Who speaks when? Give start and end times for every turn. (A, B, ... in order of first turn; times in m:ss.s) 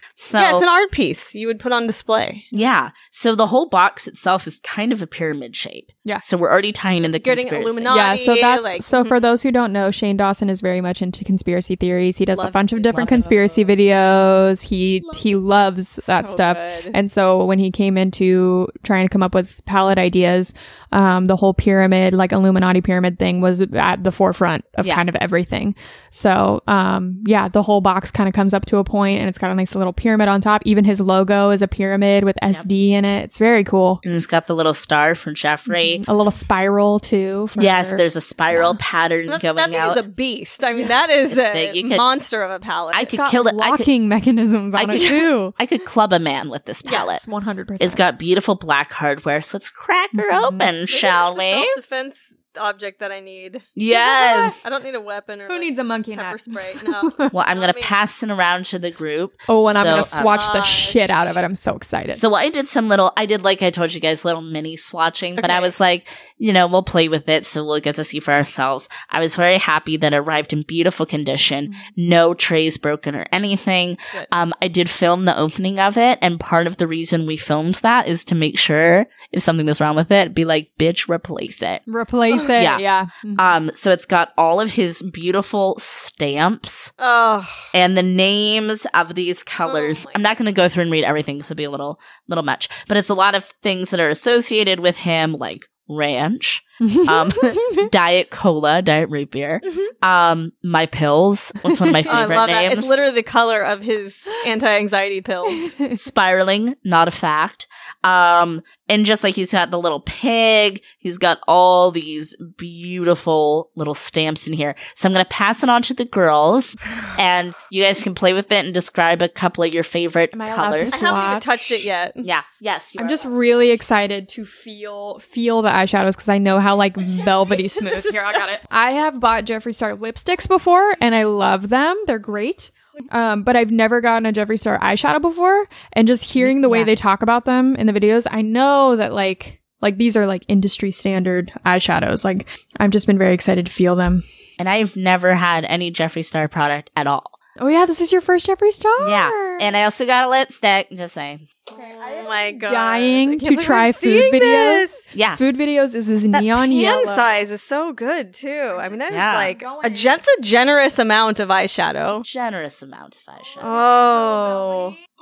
0:00.2-0:00.6 A
0:00.3-0:02.5 B
0:02.5-0:08.0 A
0:07.2-0:09.2 B
0:07.9-0:34.0 C
0:12.3-0:13.6 B
0:12.9-0:13.5 A
0:16.0-0:17.0 B
0:34.0-0:36.0 A
0:35.7-0:38.8 C
0:37.6-0:40.0 A
0:39.3-0:43.1 B
0:41.3-0:42.0 A
0:42.9-0:43.9 A
0:43.1-0:45.5 C
0:44.7-0:47.2 A
0:46.8-0:47.1 B
0:46.9-0:48.0 C
0:47.8-0:51.8 A
0:50.1-0:50.7 C
0:50.9-0:53.6 B
0:53.8-0:54.6 A
0:53.9-0:54.5 C
0:54.4-0:57.9 B
0:55.5-0:57.3 C
0:57.3-1:00.4 A
0:59.5-1:02.2 C
1:00.2-1:01.3 B
1:02.1-1:21.8 A
1:05.4-1:05.7 B
1:21.9-1:23.5 C
1:22.5-1:22.8 A
1:23.3-1:26.9 A
1:27.0-1:27.7 B
1:27.7-1:43.0 A
1:29.6-1:30.2 B
1:36.8-1:37.8 C
1:39.6-1:39.9 B
1:41.7-1:42.3 C
1:42.1-1:45.7 B
1:45.4-1:46.0 C
1:46.0-2:01.0 A
2:00.3-2:01.9 C
2:00.9-2:02.2 B
2:02.2-2:03.8 A
2:03.0-2:24.2 C
2:07.1-2:08.4 B
2:16.4-2:16.9 A
2:24.6-2:27.4 A
2:27.6-2:29.7 C
2:29.0-2:31.4 A
2:31.7-2:37.4 C
2:31.7-2:35.0 B
2:35.1-2:35.4 A
2:36.3-2:42.2 B
2:38.7-2:40.2 C
2:39.1-2:39.5 A
2:42.2-2:43.8 A
2:43.4-2:45.0 C
2:43.6-2:45.0 B